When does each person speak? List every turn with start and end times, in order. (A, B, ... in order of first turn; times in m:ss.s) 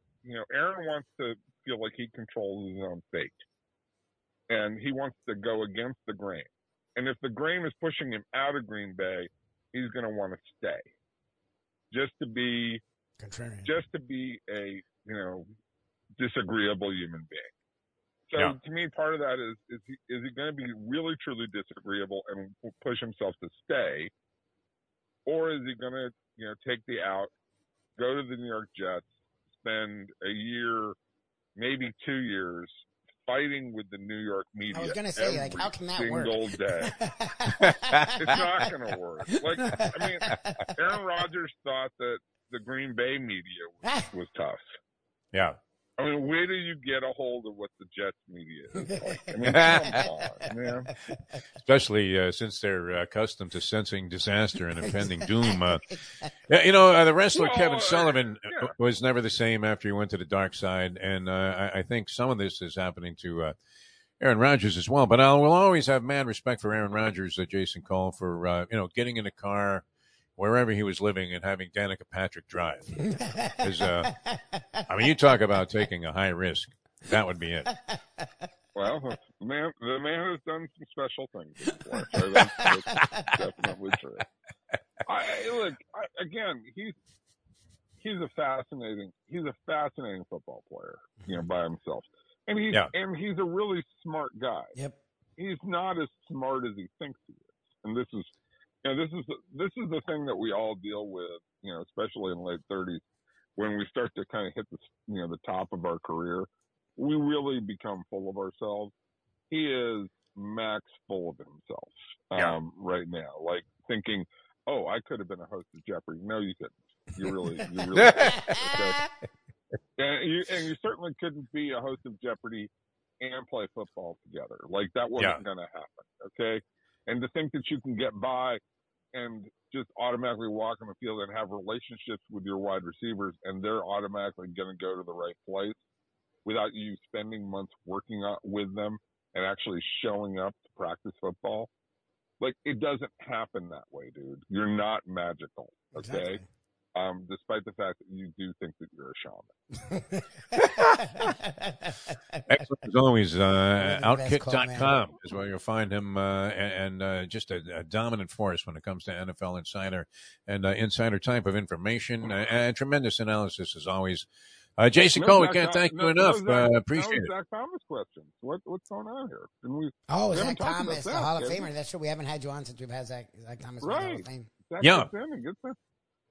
0:00.2-0:03.4 A
0:04.5-0:10.9 A
0:11.9-0:12.8 A
0:13.2-0:13.7 B
0:13.6-0:15.5 A
0:16.2-0:17.5 A
0:18.3-0:24.1 A
0:25.2-0:27.3 A
0:28.0-0:31.0 A
0:31.6-0:37.0 A
0:34.7-0:38.5 B
0:38.2-0:44.8 A
0:39.3-0:40.6 B
0:45.3-0:45.6 C
0:46.0-0:50.9 A
0:48.8-0:50.5 B
0:49.4-0:50.0 C
0:51.6-0:55.8 C
0:54.9-0:56.3 B
0:56.5-1:03.5 C
0:57.3-0:58.7 A
1:04.2-1:09.8 C
1:10.4-1:14.1 C
1:13.0-1:14.8 B
1:14.9-1:17.8 C
1:18.7-1:24.2 A
1:22.3-1:22.7 C
1:22.5-1:23.3 B
1:25.0-1:26.9 A
1:28.0-1:34.7 A
1:35.4-1:38.3 A
1:38.8-1:43.0 A
1:43.6-1:48.9 A
1:49.5-1:59.1 A
1:57.9-1:58.6 C
1:58.2-1:59.0 B
2:00.0-2:08.6 A
2:05.2-2:05.4 C
2:09.1-2:15.8 A
2:16.4-2:21.7 A
2:22.4-2:26.4 A
2:25.9-2:26.4 B
2:26.9-2:29.5 A
2:29.9-2:32.4 B
2:32.5-2:44.3 C
2:33.8-2:35.0 B
2:44.8-2:47.3 C
2:45.1-2:51.7 A
2:50.1-2:54.5 B
2:53.8-2:55.8 A
2:54.8-2:55.1 C